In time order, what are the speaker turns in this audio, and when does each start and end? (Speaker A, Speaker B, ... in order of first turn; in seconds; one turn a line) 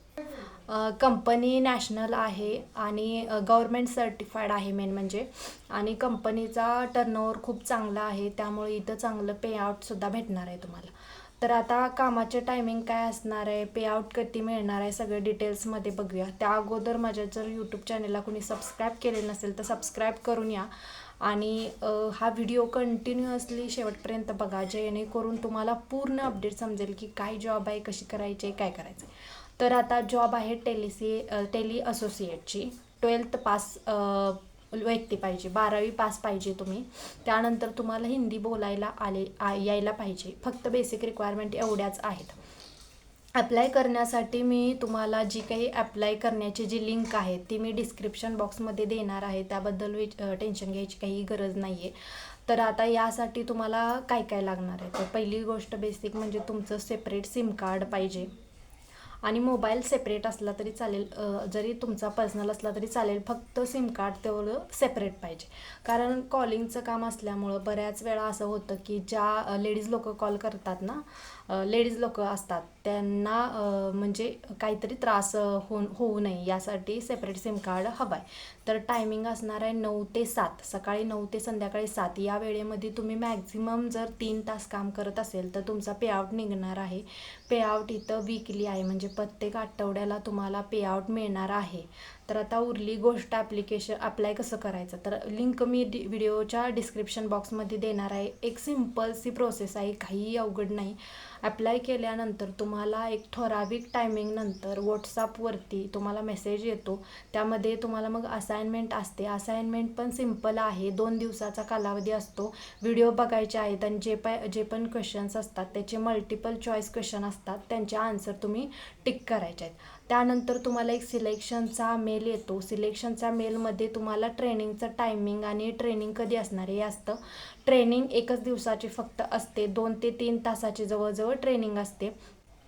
Speaker A: 0.7-20.7
Speaker A: 21.2-42.4
Speaker A: 43.4-51.9
Speaker A: 52.5-58.3
Speaker A: 59.2-132.1